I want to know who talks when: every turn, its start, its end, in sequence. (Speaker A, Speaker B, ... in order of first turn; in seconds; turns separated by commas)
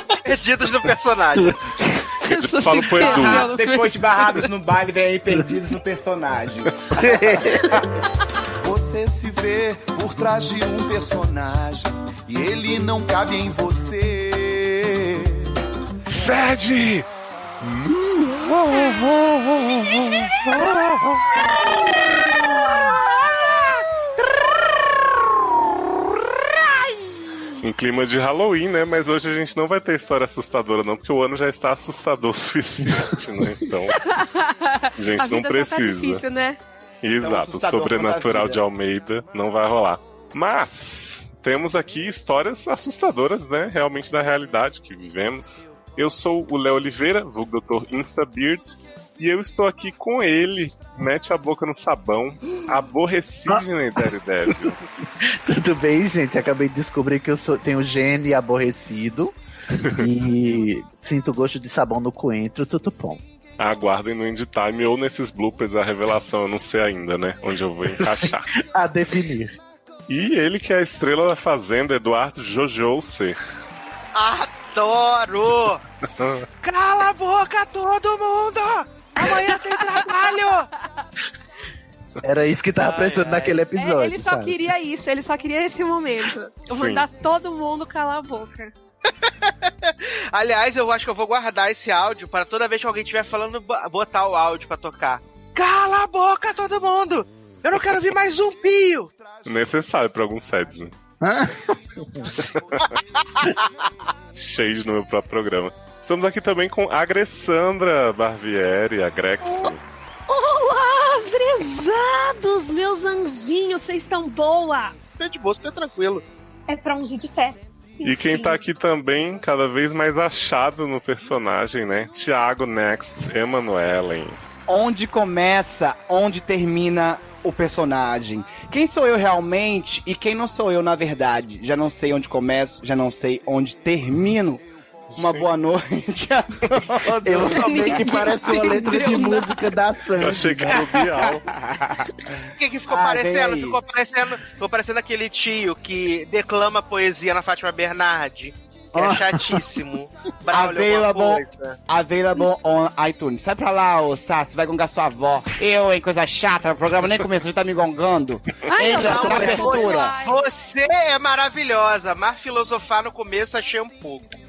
Speaker A: 0.2-1.6, Speaker B: 2.2-4.1, Speaker C: 2.3-3.5, Speaker D: 3.0-7.8, Speaker E: 7.0-7.7, Speaker F: 8.6-15.5, Speaker C: 16.0-17.1, Speaker C: 17.6-21.2, Speaker B: 22.6-23.8, Speaker C: 27.6-34.1, Speaker B: 33.9-36.6, Speaker C: 35.0-36.2, Speaker C: 37.0-54.8, Speaker D: 37.2-38.6, Speaker E: 53.5-63.2, Speaker C: 59.8-60.1, Speaker C: 63.6-68.5, Speaker E: 68.0-69.6, Speaker C: 70.1-73.4, Speaker A: 74.1-75.8, Speaker C: 76.2-76.5, Speaker A: 76.6-80.7, Speaker B: 79.2-80.4, Speaker E: 82.2-84.6, Speaker A: 82.8-83.6, Speaker B: 83.7-88.7, Speaker C: 86.7-87.0, Speaker A: 89.1-99.1, Speaker C: 99.4-100.9, Speaker E: 101.2-102.3, Speaker C: 102.3-102.9, Speaker A: 103.4-103.7, Speaker C: 104.3-109.8, Speaker B: 109.4-109.7, Speaker B: 110.3-115.0, Speaker A: 115.2-116.2, Speaker B: 116.7-118.6, Speaker C: 118.0-124.4, Speaker D: 124.7-134.6, Speaker C: 135.1-135.4, Speaker D: 135.2-138.4, Speaker E: 137.2-140.8, Speaker B: 137.5-139.8, Speaker C: 140.2-141.4, Speaker D: 140.7-143.8, Speaker A: 142.6-151.8, Speaker E: 148.9-149.6, Speaker D: 150.5-160.1, Speaker B: 158.7-160.5, Speaker A: 158.9-164.3, Speaker E: 159.0-159.9